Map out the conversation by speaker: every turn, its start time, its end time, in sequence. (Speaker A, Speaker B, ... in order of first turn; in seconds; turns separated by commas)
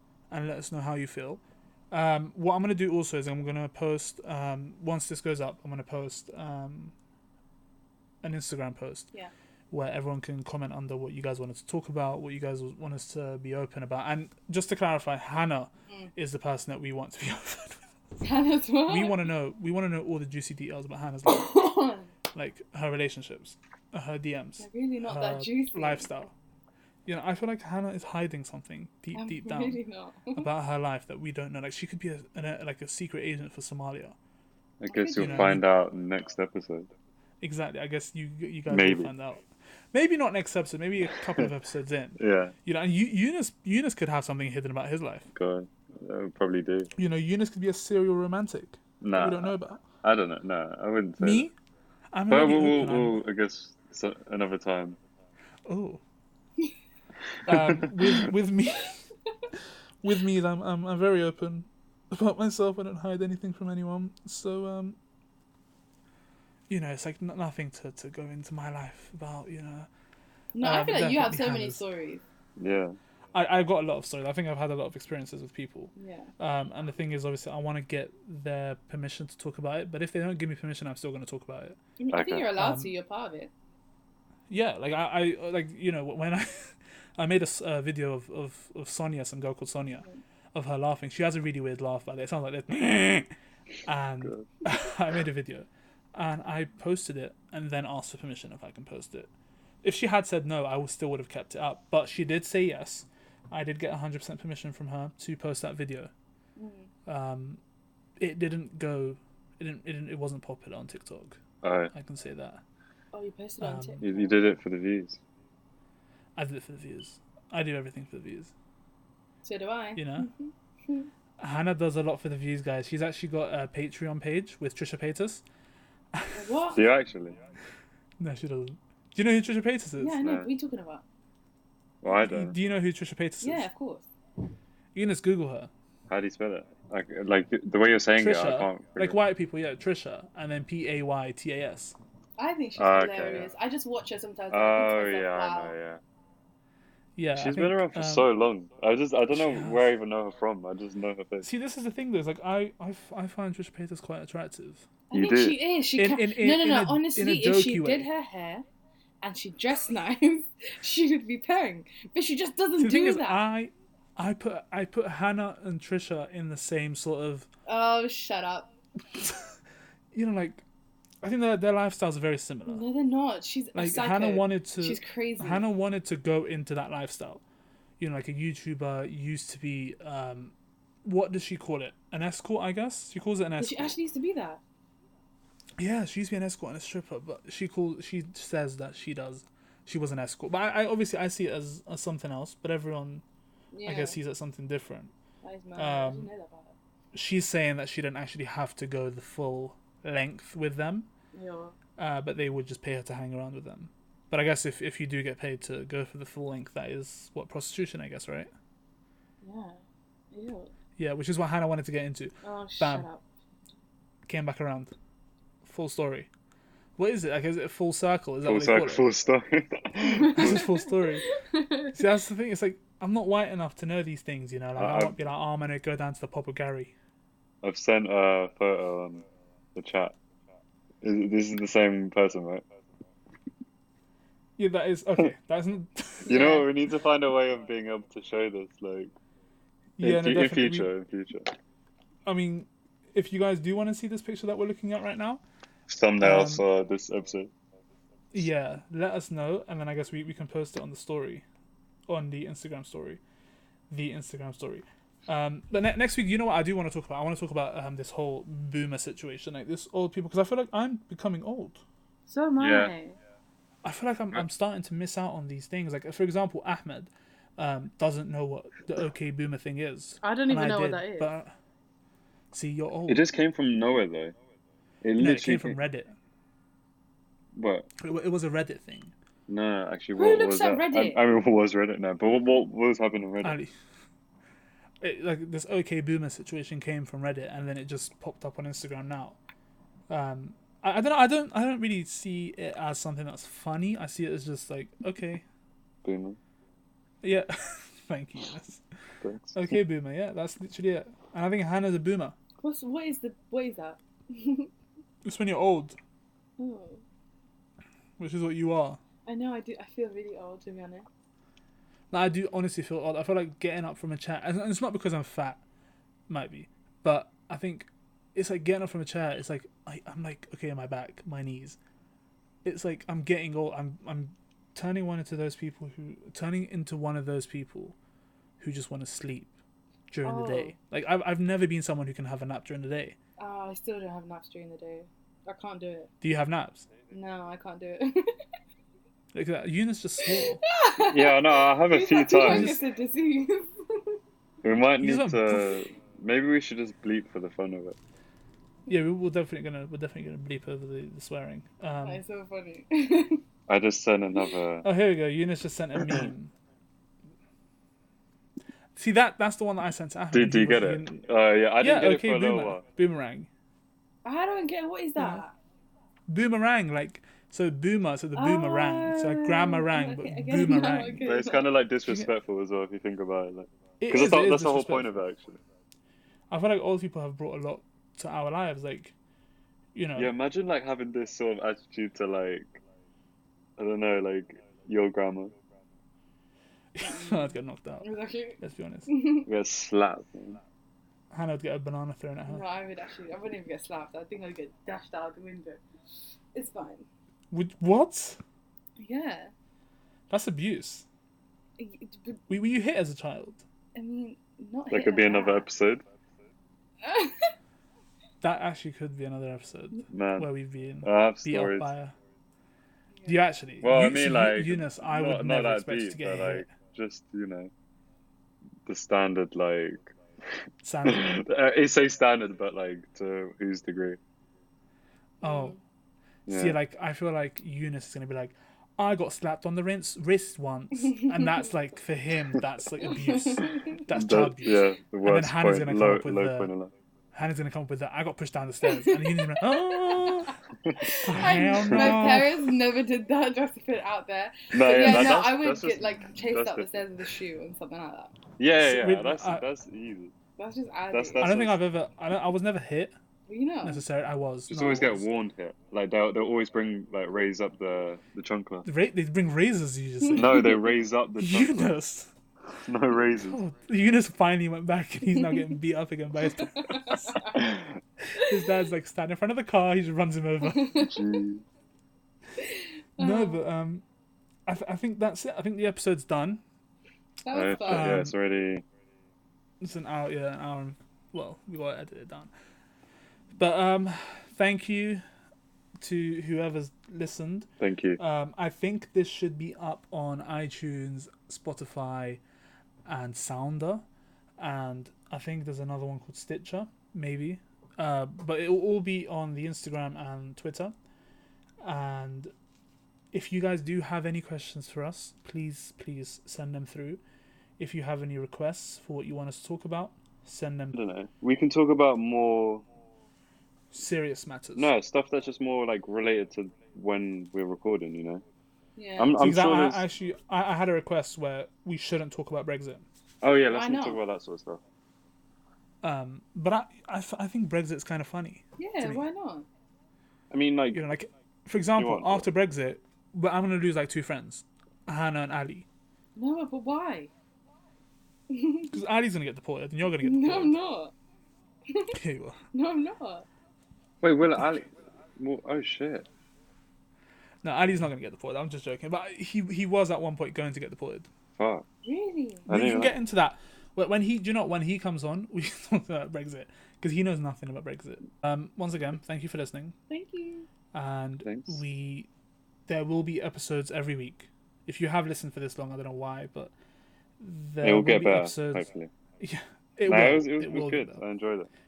Speaker A: 0.3-6.9, Speaker A: 8.2-9.1, Speaker A: 9.7-17.9, Speaker B: 15.9-16.1, Speaker B: 18.2-19.2, Speaker A: 18.9-21.6, Speaker B: 21.3-22.1, Speaker A: 22.3-26.3, Speaker B: 24.6-26.1, Speaker A: 27.1-29.8, Speaker B: 29.1-30.5, Speaker A: 30.3-34.2, Speaker C: 34.8-36.9, Speaker B: 34.9-35.6, Speaker A: 35.2-35.6, Speaker A: 37.4-45.3, Speaker C: 38.7-39.1, Speaker C: 41.1-41.5, Speaker C: 42.2-42.5, Speaker C: 45.3-46.9, Speaker A: 47.0-49.8, Speaker C: 49.0-51.5, Speaker A: 51.2-51.5, Speaker A: 52.1-53.2, Speaker C: 52.3-55.0, Speaker A: 55.7-56.0, Speaker A: 57.5-59.0, Speaker C: 57.5-58.2, Speaker A: 60.0-65.0, Speaker A: 66.7-69.9, Speaker B: 70.5-72.2, Speaker A: 70.6-71.8, Speaker C: 72.6-73.0, Speaker A: 73.3-81.8, Speaker B: 76.0-76.3, Speaker B: 82.0-83.5, Speaker C: 82.1-82.5, Speaker A: 82.6-82.9, Speaker A: 84.5-93.3, Speaker A: 93.8-99.3, Speaker A: 99.8-106.1, Speaker B: 106.6-106.9, Speaker A: 107.1-107.6, Speaker A: 108.2-112.6, Speaker C: 111.6-111.9, Speaker B: 113.1-114.4, Speaker A: 113.6-114.0, Speaker C: 114.0-115.2, Speaker A: 116.4-118.5, Speaker B: 119.4-121.1, Speaker A: 120.0-120.3, Speaker A: 121.4-125.4, Speaker A: 126.1-126.5, Speaker B: 126.3-126.8, Speaker C: 126.8-127.4, Speaker A: 128.2-130.2, Speaker B: 130.0-131.0, Speaker C: 130.2-130.5, Speaker C: 132.0-132.6, Speaker A: 132.2-133.7, Speaker B: 133.4-134.1, Speaker A: 134.9-135.7, Speaker C: 136.1-139.2, Speaker A: 138.2-141.9, Speaker B: 142.4-145.8, Speaker C: 142.8-143.5, Speaker C: 144.5-146.0, Speaker A: 147.2-148.3, Speaker C: 147.3-151.5, Speaker A: 149.3-149.9, Speaker A: 151.4-154.9, Speaker B: 155.1-158.6, Speaker C: 155.1-155.6, Speaker A: 156.0-158.1, Speaker B: 159.2-163.4, Speaker A: 162.8-167.5, Speaker B: 167.7-168.7, Speaker A: 169.1-169.5, Speaker A: 170.1-170.6, Speaker A: 171.2-172.8, Speaker B: 172.7-175.6, Speaker A: 173.8-177.4, Speaker A: 178.0-183.9, Speaker B: 183.6-184.6, Speaker A: 185.8-193.2, Speaker B: 193.7-194.2, Speaker A: 193.8-195.1, Speaker B: 195.4-196.8, Speaker A: 195.8-196.3, Speaker A: 197.1-201.1, Speaker B: 201.3-201.8, Speaker A: 202.0-208.5, Speaker B: 209.4-209.8, Speaker B: 210.3-210.7, Speaker A: 211.0-213.1, Speaker B: 212.4-213.2, Speaker A: 214.3-214.9, Speaker A: 215.6-216.3, Speaker A: 217.0-219.1, Speaker C: 218.4-220.7, Speaker A: 220.0-221.3, Speaker B: 220.2-220.9, Speaker B: 221.4-221.9, Speaker A: 221.9-226.9, Speaker C: 224.8-225.2, Speaker C: 227.6-229.2, Speaker C: 229.8-230.2, Speaker C: 231.0-232.6, Speaker A: 234.6-236.6, Speaker B: 236.3-236.6, Speaker C: 236.3-239.1, Speaker A: 240.0-240.9, Speaker C: 240.0-241.6, Speaker A: 242.3-245.4, Speaker C: 245.9-247.5, Speaker A: 246.2-246.6, Speaker A: 248.3-251.4, Speaker A: 252.1-253.2, Speaker A: 253.9-261.8, Speaker B: 262.3-263.2, Speaker C: 262.6-262.9, Speaker A: 263.8-271.6, Speaker B: 270.2-271.3, Speaker A: 272.5-273.3, Speaker C: 273.1-274.3, Speaker C: 275.0-275.8, Speaker A: 275.2-276.1, Speaker C: 277.6-277.9, Speaker A: 278.0-279.1, Speaker C: 279.5-283.6, Speaker B: 280.1-281.2, Speaker A: 283.4-283.7, Speaker A: 285.0-289.4, Speaker A: 290.1-295.4, Speaker C: 296.0-296.4, Speaker A: 297.2-298.8, Speaker C: 299.2-299.8, Speaker A: 299.5-302.4, Speaker B: 302.6-304.7, Speaker A: 305.2-306.0, Speaker B: 306.6-307.0, Speaker A: 308.2-309.0, Speaker B: 309.3-311.1, Speaker A: 312.1-315.6, Speaker A: 316.3-321.8, Speaker A: 322.6-327.9, Speaker A: 328.6-329.5, Speaker A: 330.1-333.2, Speaker B: 330.2-330.7, Speaker B: 333.4-336.1, Speaker A: 336.2-336.9, Speaker B: 337.1-338.3, Speaker A: 339.3-340.6, Speaker B: 340.2-344.2, Speaker C: 341.1-342.8, Speaker A: 342.4-342.8, Speaker C: 344.6-348.0, Speaker A: 345.0-345.8, Speaker A: 348.9-352.2, Speaker B: 352.1-353.4, Speaker C: 353.7-354.9, Speaker A: 354.8-356.5, Speaker A: 358.9-361.2, Speaker C: 360.3-362.8, Speaker A: 361.8-363.5, Speaker B: 364.2-365.5, Speaker A: 365.2-365.4, Speaker A: 366.3-371.3, Speaker B: 368.4-371.6, Speaker C: 371.2-375.6, Speaker A: 374.0-375.1, Speaker A: 376.5-379.1, Speaker A: 379.9-380.3, Speaker C: 380.2-382.8, Speaker C: 383.8-385.5, Speaker A: 386.9-388.1, Speaker B: 387.0-389.5, Speaker A: 388.6-389.1, Speaker C: 389.5-390.6, Speaker A: 391.3-392.6, Speaker B: 392.5-395.8, Speaker B: 396.5-397.1, Speaker A: 397.5-398.4, Speaker B: 399.0-399.5, Speaker A: 400.3-401.1, Speaker B: 401.8-402.4, Speaker A: 402.5-403.6, Speaker B: 403.9-405.6, Speaker C: 404.9-406.0, Speaker B: 407.0-407.5, Speaker A: 408.4-412.1, Speaker C: 410.1-410.5, Speaker C: 411.0-411.9, Speaker A: 413.3-416.7, Speaker C: 413.8-417.7, Speaker C: 418.8-424.2, Speaker A: 420.8-421.4, Speaker A: 425.4-425.8, Speaker B: 425.4-425.8, Speaker C: 426.5-426.8, Speaker A: 426.5-436.7, Speaker B: 431.2-431.5, Speaker B: 433.0-434.1, Speaker C: 434.1-436.9, Speaker A: 437.3-440.6, Speaker B: 438.9-448.5, Speaker C: 440.8-442.2, Speaker A: 441.2-442.6, Speaker C: 444.7-447.1, Speaker C: 448.6-450.3, Speaker A: 448.8-449.6, Speaker B: 450.6-451.5, Speaker C: 451.1-451.8, Speaker A: 451.4-453.1, Speaker B: 453.5-454.0, Speaker A: 453.8-455.2, Speaker C: 454.7-458.9, Speaker A: 458.8-460.7, Speaker B: 460.2-460.8, Speaker C: 460.4-461.9, Speaker A: 461.4-462.3, Speaker C: 462.7-463.6, Speaker A: 463.4-467.6, Speaker B: 465.3-465.7, Speaker B: 466.6-467.6, Speaker C: 467.6-468.0, Speaker A: 468.3-470.9, Speaker B: 470.6-471.2, Speaker C: 471.0-471.6, Speaker B: 472.6-473.6, Speaker A: 473.2-474.1, Speaker A: 474.7-476.6, Speaker B: 477.4-478.1, Speaker C: 477.5-478.8, Speaker A: 477.9-478.3, Speaker A: 479.8-482.5, Speaker A: 483.6-485.2, Speaker A: 486.0-492.4, Speaker C: 487.8-488.2, Speaker A: 493.1-494.0, Speaker A: 494.6-500.9, Speaker A: 501.8-502.5, Speaker A: 503.3-507.2, Speaker A: 507.8-511.0, Speaker C: 510.9-512.9, Speaker A: 513.9-514.9, Speaker C: 514.8-518.4, Speaker B: 519.0-519.3, Speaker C: 519.2-520.0, Speaker A: 519.4-523.0, Speaker C: 523.4-524.8, Speaker B: 523.7-524.2, Speaker A: 526.0-529.3, Speaker B: 528.8-529.7, Speaker C: 530.5-531.0, Speaker A: 530.9-535.9, Speaker C: 532.0-532.5, Speaker B: 536.4-537.3, Speaker B: 538.5-539.0, Speaker A: 538.9-540.8, Speaker B: 540.1-541.1, Speaker B: 541.9-542.2, Speaker A: 542.1-542.6, Speaker B: 542.7-543.5, Speaker C: 544.2-546.3, Speaker A: 547.6-551.3, Speaker C: 551.6-551.8, Speaker B: 552.0-552.7, Speaker C: 552.7-553.2, Speaker A: 552.7-560.0, Speaker B: 560.1-560.7, Speaker A: 560.9-562.3, Speaker C: 561.5-561.8, Speaker A: 562.9-566.7, Speaker A: 567.4-568.9, Speaker C: 567.8-569.1, Speaker A: 569.4-571.2, Speaker C: 570.1-571.7